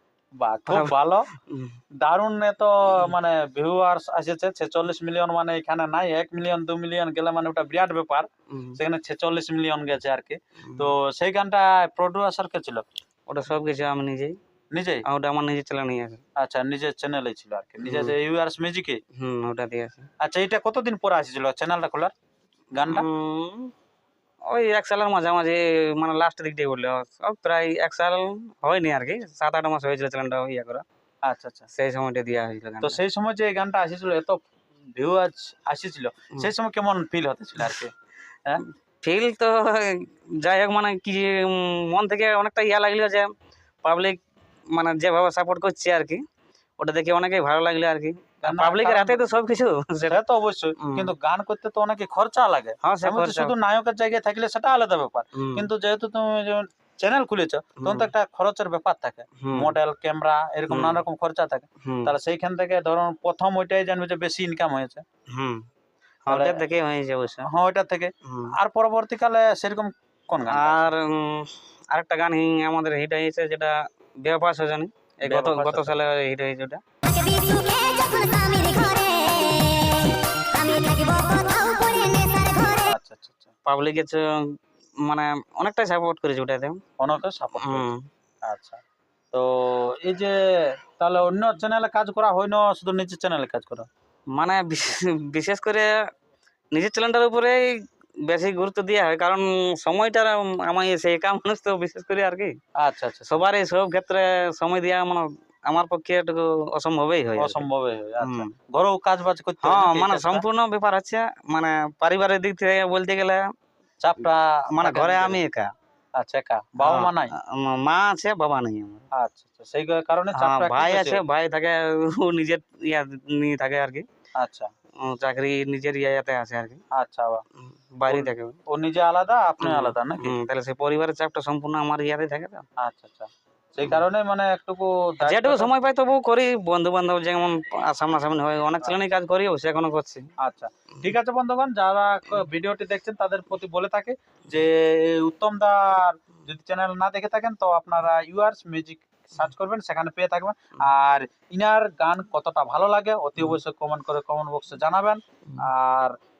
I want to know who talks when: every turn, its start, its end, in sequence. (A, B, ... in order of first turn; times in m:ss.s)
0:00.4-0:01.3 A
0:00.7-0:00.9 B
0:01.5-0:01.8 B
0:02.0-0:12.8 A
0:08.5-0:08.8 B
0:13.3-0:14.4 B
0:14.7-0:15.0 A
0:15.1-0:16.2 B
0:16.4-0:19.0 A
0:17.8-0:18.1 B
0:19.2-0:20.1 B
0:20.2-0:22.1 A
0:22.7-0:23.1 A
0:22.9-0:23.7 B
0:24.4-0:30.8 B
0:31.2-0:31.7 A
0:31.7-0:33.0 B
0:32.8-0:34.4 A
0:34.9-0:37.9 A
0:39.0-0:43.3 B
0:43.8-0:44.2 B
0:44.7-0:46.2 B
0:46.8-0:50.2 B
0:48.4-0:49.2 A
0:50.1-1:05.0 A
0:50.8-0:51.1 B
0:52.8-0:53.5 B
0:55.4-0:55.6 B
0:57.8-0:58.1 B
0:59.4-0:59.7 B
1:00.7-1:01.0 B
1:01.8-1:02.1 B
1:05.3-1:05.6 B
1:06.2-1:07.5 B
1:06.3-1:06.6 A
1:07.4-1:10.9 A
1:08.2-1:08.5 B
1:10.5-1:16.8 B
1:15.2-1:16.0 A
1:17.0-1:22.9 C
1:22.9-1:23.5 A
1:23.6-1:24.5 B
1:25.0-1:26.8 B
1:27.0-1:27.9 A
1:27.6-1:28.0 B
1:28.4-1:28.8 A
1:29.3-1:33.9 A
1:34.4-1:35.9 B
1:36.7-1:37.6 B
1:38.3-1:42.5 B
1:42.8-1:43.4 A
1:43.3-1:47.6 B
1:47.4-1:50.4 A
1:48.2-1:48.5 B
1:49.6-1:53.4 B
1:54.0-1:55.4 A
1:54.8-1:55.7 B
1:56.2-1:57.3 A
1:56.8-1:59.0 B
1:59.1-2:01.2 A
2:00.4-2:04.0 B
2:04.4-2:04.7 A
2:05.0-2:06.8 B
2:06.9-2:07.4 A
2:07.9-2:08.6 B
2:08.1-2:10.4 A
2:09.6-2:12.6 B
2:12.8-2:15.7 A
2:15.2-2:20.3 B
2:20.4-2:36.1 A